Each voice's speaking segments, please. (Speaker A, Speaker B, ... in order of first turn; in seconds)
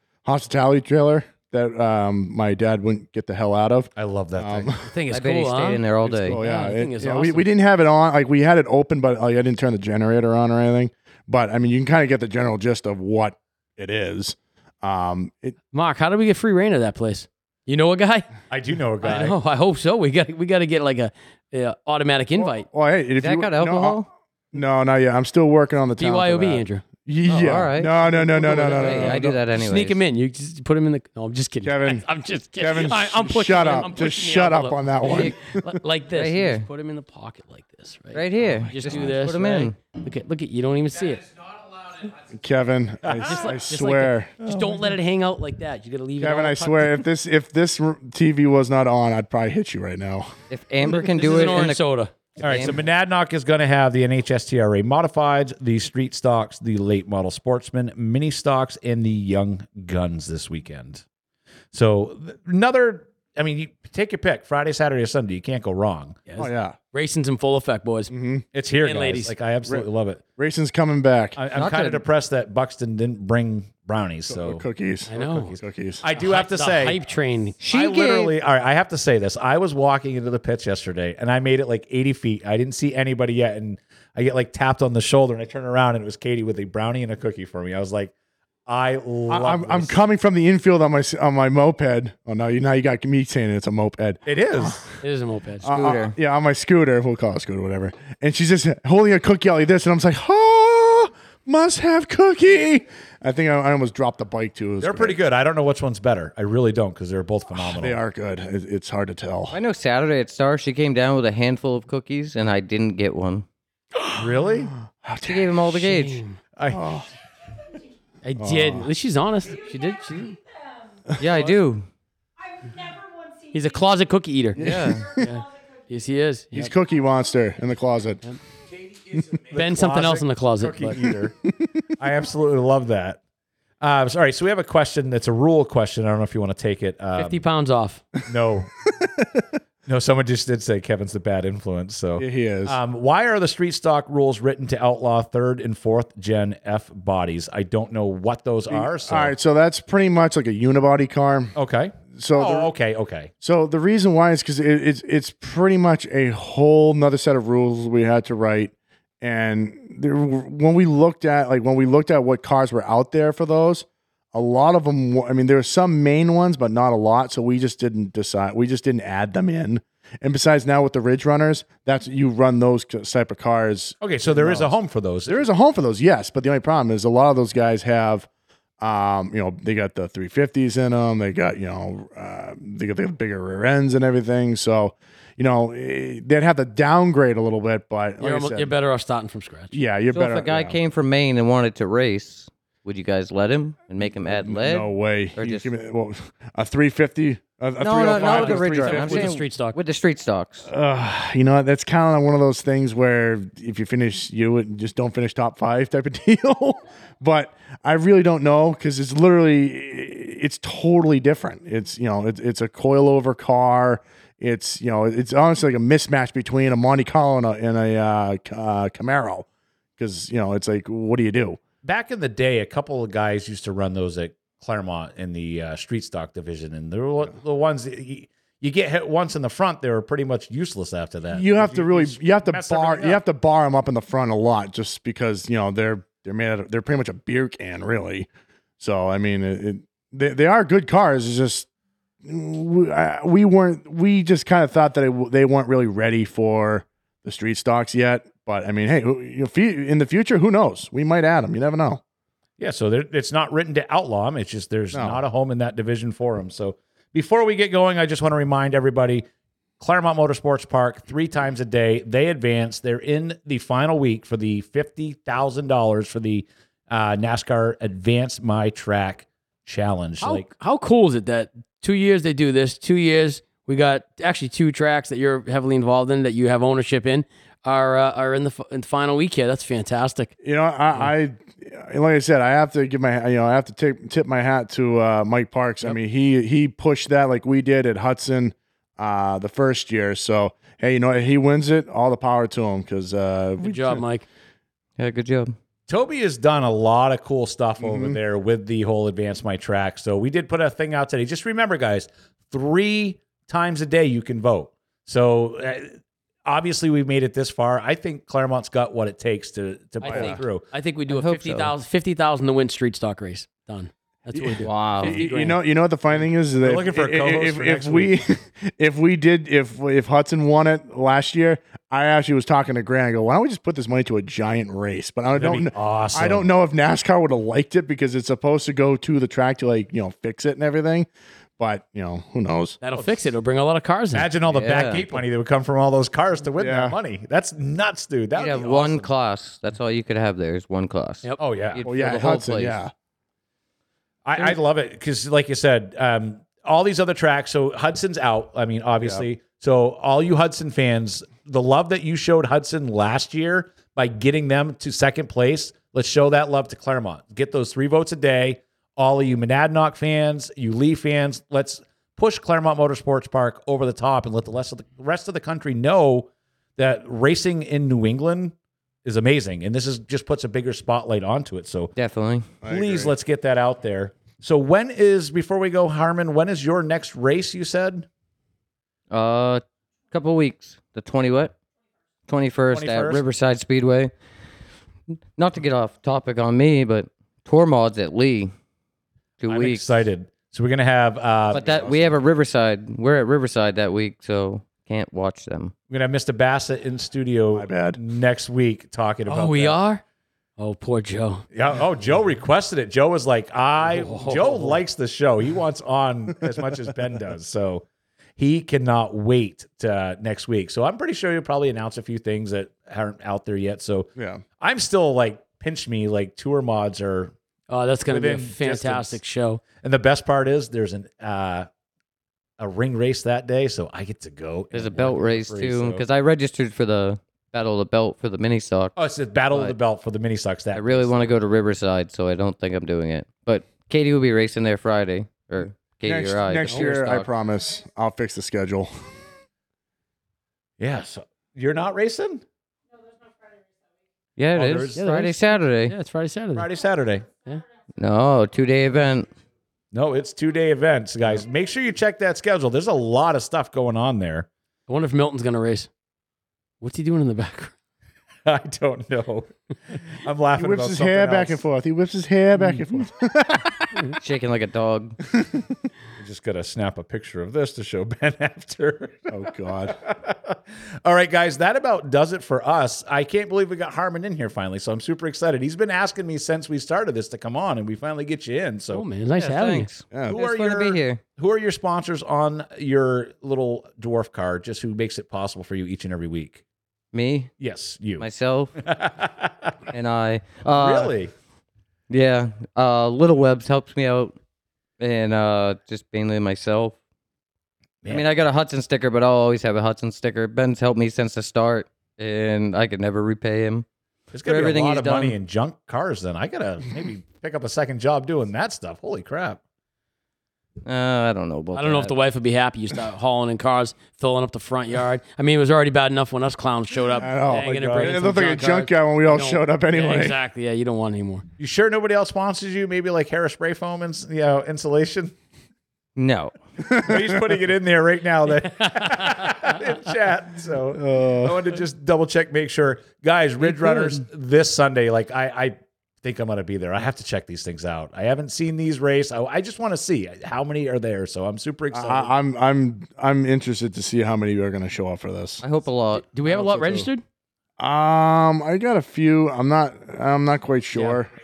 Speaker A: 0.2-4.8, 6.0-15.6, 22.4-29.4, 31.6-32.0, 32.6-35.8, 42.3-44.9, 46.2-50.3, 66.4-66.8, 68.1-68.5, 69.7-71.4, 74.3-76.0, 89.3-94.8, 95.6-105.2, 107.5-109.5, 114.9-115.7, 116.7-117.0, 118.4-118.9, 124.6-125.1, 126.5-128.2, 138.9-139.4, 142.2-142.8, 148.7-151.5, 152.1-152.7, 153.4-174.8, 175.3-178.3, 178.8-188.7, 189.7-190.8, 194.2-199.4, 200.7-219.4, 220.0-221.6, 231.3-238.3, 238.8-241.7, 242.2-252.0, 254.9-255.2, 280.4-294.0, 297.8-298.2, 310.1-310.4, 314.3-332.8, 336.6-336.9, 341.8-342.9, 372.6-373.1, 391.5-392.1, 397.5-398.0, 414.1-414.4, 436.1-438.9, 460.6-464.1, 465.3-465.7, 469.3-469.9, 480.1-480.4, 517.2-520.4, 526.9-527.4, 530.9-531.6, 541.9-545.6, 546.5-547.1, 547.8-551.3
Speaker B: 4.0-4.7, 18.5-19.4, 43.0-43.3, 52.4-61.0, 61.7-66.2, 68.5-70.2, 71.3-77.0, 77.6-88.1, 88.7-90.0, 94.2-94.9, 104.8-108.0, 114.2-114.7, 116.5-116.9, 129.5-131.3, 132.0-133.2, 133.8-137.4, 138.2-138.7, 139.9-149.3, 151.6-153.3, 174.0-175.5, 221.8-233.2, 252.6-259.2, 259.8-270.5, 295.9-310.6, 316.6-318.2, 325.3-326.4, 334.1-339.1, 341.4-341.8, 344.2-371.9, 372.6-378.1, 382.7-383.2, 389.4-392.1, 395.9-399.8, 401.5-407.8, 408.4-417.3, 418.1-419.2, 419.8-421.7, 422.6-426.0, 428.9-431.3, 440.8-442.4, 444.5-445.0, 446.5-447.3, 449.9-454.5, 458.4-459.5, 460.1-461.6, 466.2-479.0, 480.3-486.6, 487.6-488.2, 488.8-489.7, 490.7-491.3, 504.3-509.6, 517.4-518.2, 521.6-525.3, 526.9-542.3
Speaker C: 4.8-7.5, 15.7-18.3, 19.0-22.6, 26.0-26.8, 28.1-41.2, 43.2-47.0, 50.9-52.1, 66.2-68.1, 68.8-69.3, 75.1-75.5, 76.1-77.6, 95.0-95.7, 115.7-116.4, 118.2-120.4, 123.5-126.7, 129.5-131.1, 137.2-138.0, 188.2-189.8, 198.0-199.8, 270.2-280.3, 293.6-294.2, 310.0-315.6, 332.8-334.3, 399.3-400.0, 400.6-401.4, 403.8-404.8, 417.7-419.6, 444.9-446.7, 454.9-455.9, 456.8-457.7, 478.9-479.9, 511.7-521.5, 528.8-529.3, 546.1-547.2, 550.9-551.2
Speaker D: 5.1-6.4, 23.2-24.1, 27.2-30.0, 36.1-36.6, 38.1-39.7, 50.5-51.8, 52.4-52.8, 71.5-72.0, 77.6-78.3, 95.6-96.1, 109.5-113.5, 115.2-116.2, 121.2-121.9, 124.5-125.2, 190.1-195.7, 197.8-200.7, 295.0-295.5, 311.1-311.7, 314.6-315.2, 334.5-335.0, 338.3-342.8, 371.9-372.5, 379.1-381.5, 382.3-384.1, 385.4-388.5, 389.4-389.9, 391.5-395.7, 424.7-428.9, 429.5-429.8, 430.7-437.3, 444.4-445.9, 448.0-449.3, 464.2-465.2, 479.4-481.2, 487.1-487.5, 488.2-488.8, 489.9-491.1, 492.1-494.3, 495.0-496.9, 498.1-503.9, 504.4-505.4, 510.8-512.1, 526.1-526.5, 545.6-546.3
Speaker E: 41.2-42.3, 128.7-129.7